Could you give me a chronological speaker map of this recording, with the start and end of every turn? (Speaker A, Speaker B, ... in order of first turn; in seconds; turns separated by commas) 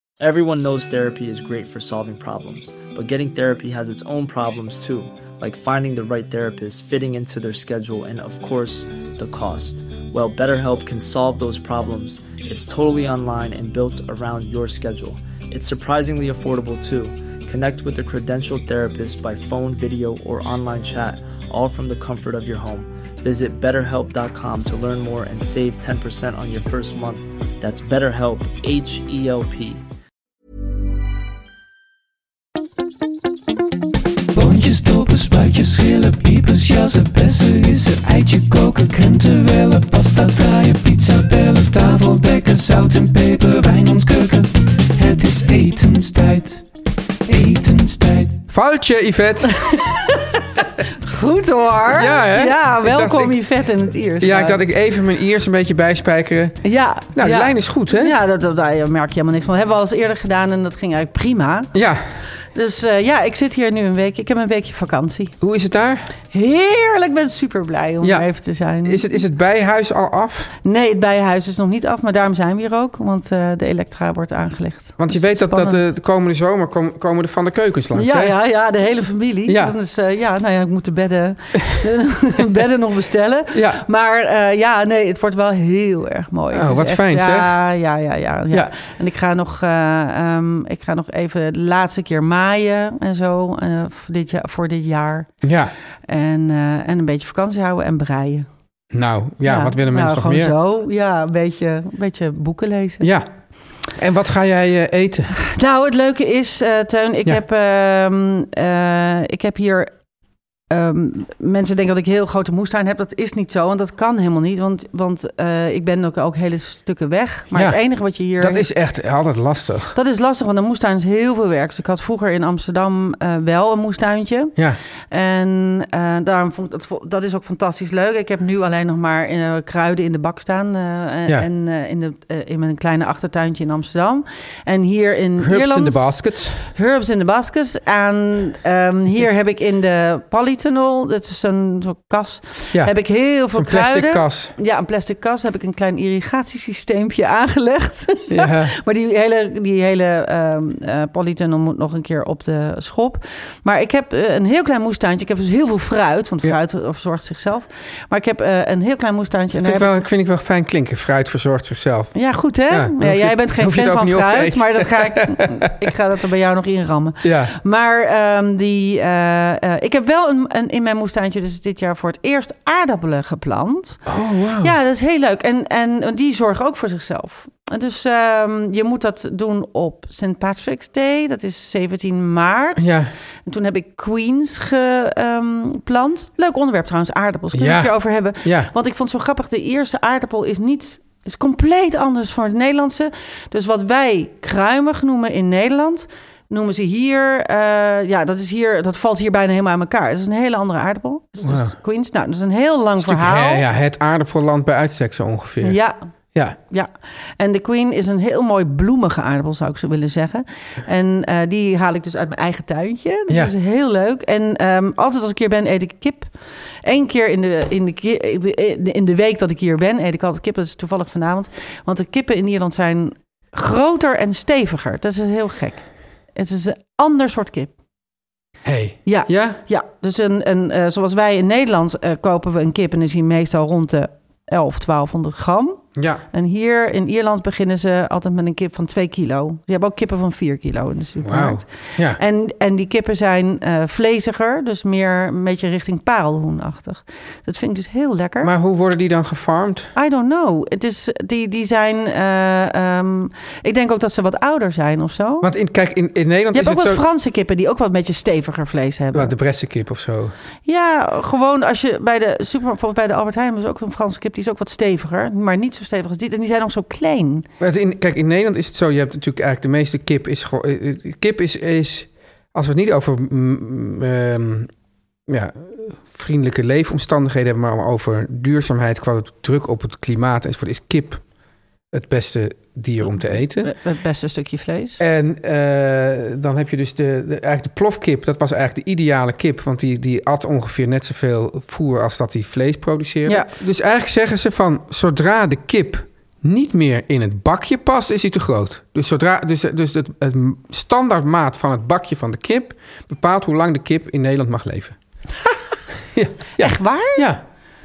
Speaker A: 0.2-29.8, Speaker B: 34.3-46.6, Speaker B: 47.3-48.4, Speaker C: 48.5-49.6, Speaker D: 49.7-54.6, Speaker C: 51.9-53.4, Speaker C: 54.2-58.2, Speaker D: 56.6-61.7, Speaker C: 61.7-62.0, Speaker D: 62.5-65.3, Speaker C: 65.4-66.1, Speaker D: 66.3-69.0, Speaker C: 68.0-68.3, Speaker C: 68.8-70.5, Speaker D: 70.6-75.8, Speaker C: 75.0-78.4, Speaker D: 77.9-95.3, Speaker C: 79.5-79.7, Speaker C: 83.5-83.8, Speaker C: 86.5-87.6, Speaker C: 95.4-95.7, Speaker D: 96.0-98.5, Speaker C: 98.9-100.5, Speaker D: 99.4-103.1, Speaker C: 103.0-103.3, Speaker C: 103.9-105.3, Speaker D: 105.4-109.9, Speaker D: 110.7-118.7, Speaker C: 117.5-117.8, Speaker C: 118.4-120.0, Speaker D: 119.9-124.5, Speaker D: 125.1-159.9, Speaker C: 135.4-136.7, Speaker C: 143.5-144.5, Speaker C: 148.3-148.8, Speaker C: 159.6-165.4, Speaker D: 162.1-174.1, Speaker C: 167.2-167.6, Speaker C: 174.1-174.7, Speaker D: 174.6-182.9, Speaker C: 182.8-183.1, Speaker D: 183.4-203.6, Speaker C: 187.5-188.7, Speaker C: 201.4-201.8, Speaker C: 203.0-205.8, Speaker D: 205.6-206.0, Speaker D: 206.7-216.3, Speaker D: 216.8-227.7, Speaker C: 228.6-229.6, Speaker D: 229.1-235.8, Speaker C: 235.9-236.2, Speaker D: 236.3-248.5, Speaker C: 241.2-242.2, Speaker C: 248.4-249.9, Speaker D: 249.9-255.5, Speaker C: 255.4-257.0, Speaker D: 256.5-259.3, Speaker C: 259.1-260.3, Speaker D: 260.6-267.5, Speaker C: 267.6-274.7, Speaker C: 275.3-281.2, Speaker C: 281.9-283.7, Speaker D: 283.6-285.0, Speaker C: 285.0-304.9, Speaker C: 306.1-307.4, Speaker D: 306.6-307.2